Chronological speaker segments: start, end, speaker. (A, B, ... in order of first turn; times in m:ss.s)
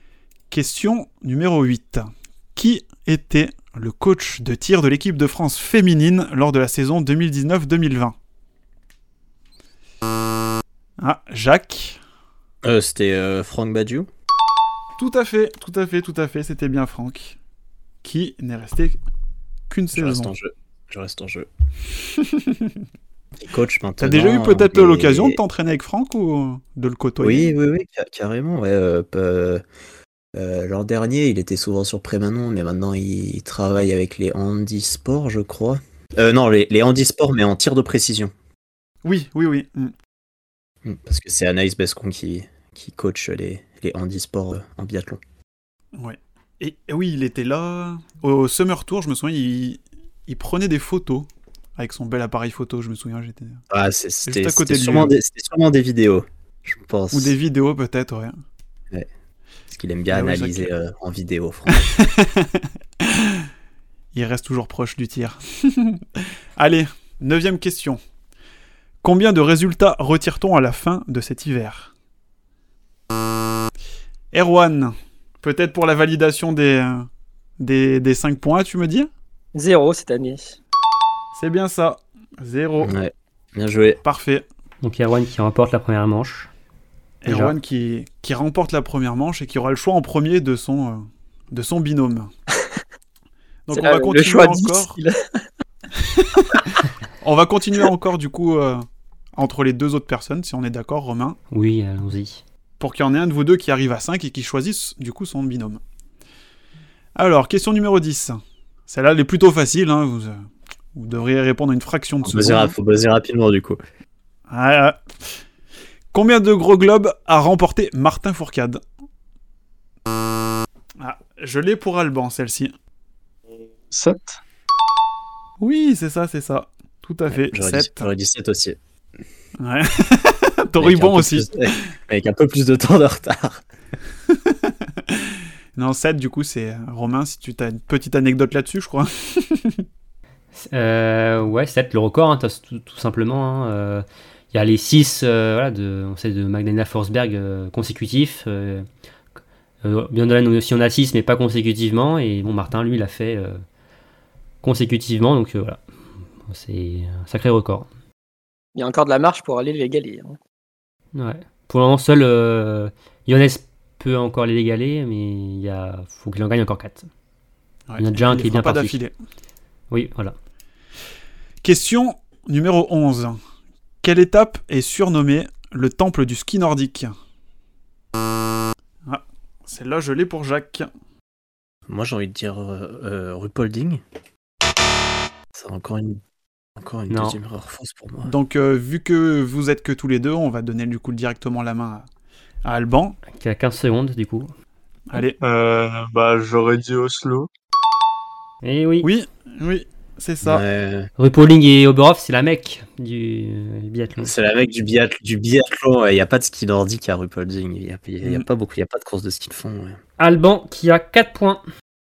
0:00.5-0:08.1 A
0:11.0-0:12.0 A
0:12.6-0:14.1 B
0:15.0-0:17.4 A
0:18.0-0:19.0 A
0:19.7-0:20.3 A
0:19.9-0:21.5 B
0:22.2-0:22.7 A
0:23.4-0:25.4 B
0:24.0-0:27.5 A
0:27.2-0:29.6 B
0:30.3-0:38.3 B
0:39.0-0:39.9 A
0:40.8-0:45.2 B
0:46.0-0:53.6 A
0:53.7-0:57.3 B
0:54.2-0:55.1 A
0:57.1-0:58.4 A
0:59.7-1:01.8 B
1:00.1-1:00.7 A
1:01.8-1:03.5 A
1:04.1-1:08.0 A
1:09.0-1:11.9 A
1:14.3-1:17.1 A
1:17.6-1:19.1 A
1:19.5-1:20.6 C
1:21.3-1:22.9 A
1:22.8-1:24.0 B
1:24.0-1:24.4 A
1:24.8-1:26.5 D
1:27.2-1:32.3 A
1:33.7-1:35.0 A
1:33.7-1:35.4 C
1:36.0-1:36.7 A
1:37.2-1:41.4 A
1:41.5-1:42.4 D
1:42.8-1:45.8 A
1:47.1-1:50.4 A
1:50.9-1:52.7 A
1:52.2-1:53.8 B
1:54.5-1:55.0 A
1:56.1-1:58.8 A
2:01.0-2:02.7 A
2:03.5-2:04.4 E
2:05.6-2:08.1 A
2:07.3-2:08.8 B
2:09.6-2:11.5 A
2:10.8-2:13.6 B
2:14.3-2:19.8 A
2:20.5-2:28.8 D
2:29.8-2:33.6 D
2:34.6-2:35.8 D
2:36.5-2:37.9 D
2:38.8-2:40.4 C
2:41.1-2:47.1 D
2:47.9-2:49.1 A
2:48.0-2:49.0 D
2:49.9-2:50.3 D
2:51.6-2:53.4 A
2:54.0-2:57.1 A
2:59.0-3:00.9 A
3:01.9-3:04.0 B
3:05.5-3:06.2 B
3:06.8-3:08.3 B
3:07.1-3:07.4 D
3:08.2-3:12.0 A
3:12.6-3:13.2 A
3:13.3-3:14.5 D
3:15.1-3:15.4 A
3:15.4-3:17.5 E
3:18.6-3:19.1 D
3:19.0-3:20.6 A
3:20.4-3:21.1 B
3:21.2-3:24.3 D
3:24.2-3:30.0 B
3:30.2-3:31.6 D